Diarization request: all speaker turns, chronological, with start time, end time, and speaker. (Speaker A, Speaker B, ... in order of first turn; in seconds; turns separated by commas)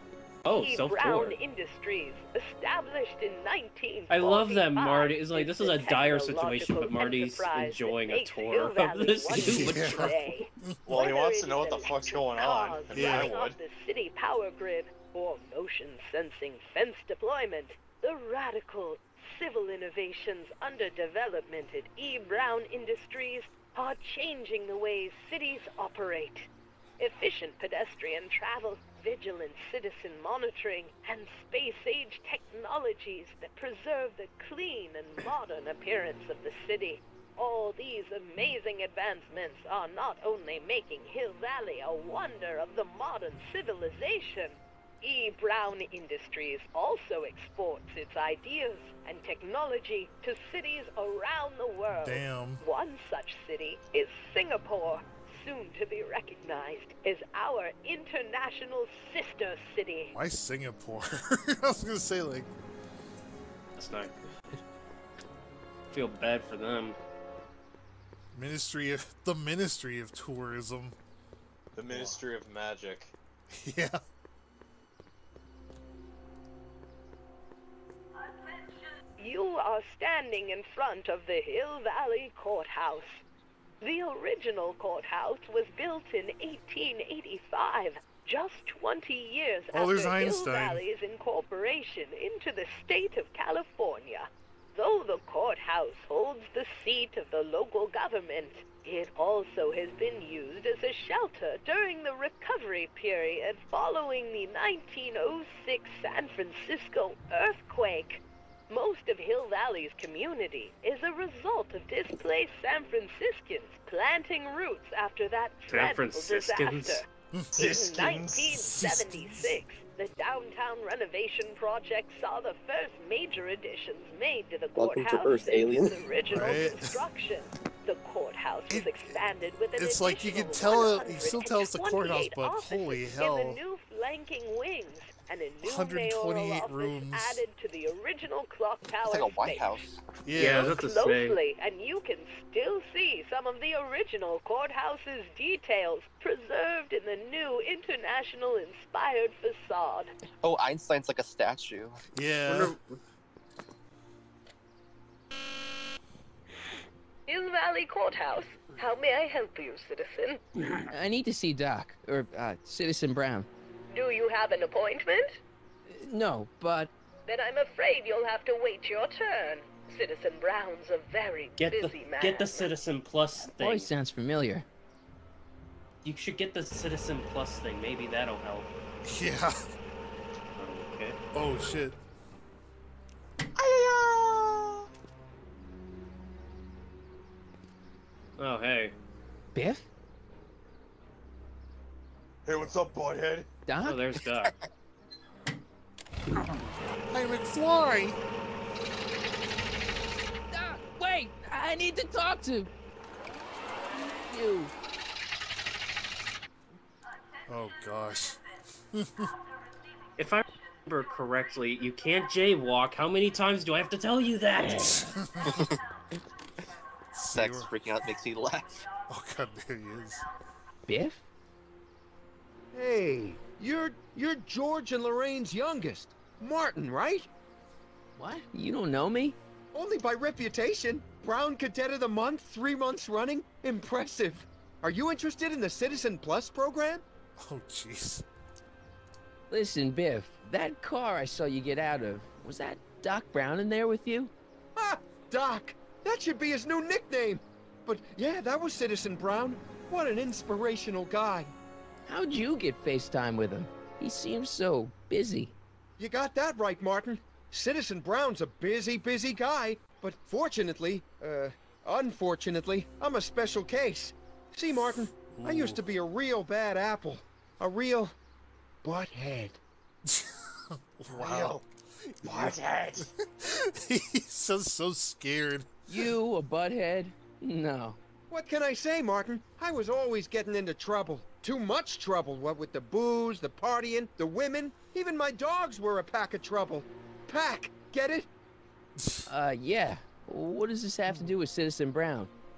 Speaker A: 0.5-1.4, Speaker B: 0.5-60.1, Speaker A: 4.1-10.1, Speaker C: 9.4-10.8, Speaker D: 10.9-13.6, Speaker C: 12.9-13.3, Speaker C: 51.9-52.6, Speaker C: 60.1-62.5, Speaker A: 63.8-64.6, Speaker A: 65.9-67.0, Speaker C: 68.3-71.0, Speaker D: 71.8-73.1, Speaker C: 71.9-72.2, Speaker C: 73.5-74.0, Speaker B: 79.2-83.2, Speaker B: 83.8-117.1, Speaker C: 89.7-90.8, Speaker A: 115.7-117.0, Speaker C: 117.3-117.7, Speaker D: 117.5-118.5, Speaker B: 117.6-139.8, Speaker C: 118.5-119.5, Speaker E: 124.8-126.5, Speaker C: 126.3-127.1, Speaker C: 128.7-133.6, Speaker C: 135.6-137.4, Speaker E: 139.0-140.0, Speaker C: 140.2-140.8, Speaker A: 140.4-141.4, Speaker B: 140.6-150.1, Speaker E: 150.4-152.0, Speaker C: 152.1-152.8, Speaker A: 152.5-152.8, Speaker B: 157.3-160.8, Speaker F: 160.9-163.5, Speaker B: 163.9-165.4, Speaker F: 165.9-166.9, Speaker B: 167.3-172.8, Speaker A: 171.6-173.9, Speaker F: 173.4-174.7, Speaker A: 176.0-178.7, Speaker C: 179.0-179.6, Speaker A: 180.6-181.2, Speaker C: 181.3-182.0, Speaker D: 183.6-184.8, Speaker A: 188.4-188.9, Speaker F: 189.5-189.9, Speaker D: 192.5-193.5, Speaker F: 193.7-194.1, Speaker A: 193.8-194.6, Speaker C: 197.1-198.2, Speaker F: 200.5-202.7, Speaker F: 204.2-204.7, Speaker C: 207.5-209.3, Speaker A: 210.2-215.1, Speaker C: 214.8-215.6, Speaker C: 217.1-217.7, Speaker E: 217.3-218.9, Speaker C: 219.1-220.2, Speaker F: 220.9-221.3, Speaker G: 222.7-227.3, Speaker F: 228.2-229.4, Speaker G: 229.7-237.0, Speaker C: 237.4-238.2, Speaker F: 239.5-244.3, Speaker G: 244.8-251.5, Speaker F: 252.1-255.6, Speaker G: 256.0-268.1, Speaker C: 265.3-265.8, Speaker G: 268.8-269.6, Speaker C: 270.1-271.7, Speaker D: 271.2-271.5, Speaker C: 272.2-276.0, Speaker D: 272.3-273.1, Speaker F: 275.9-278.0, Speaker G: 278.3-288.3, Speaker F: 289.3-292.3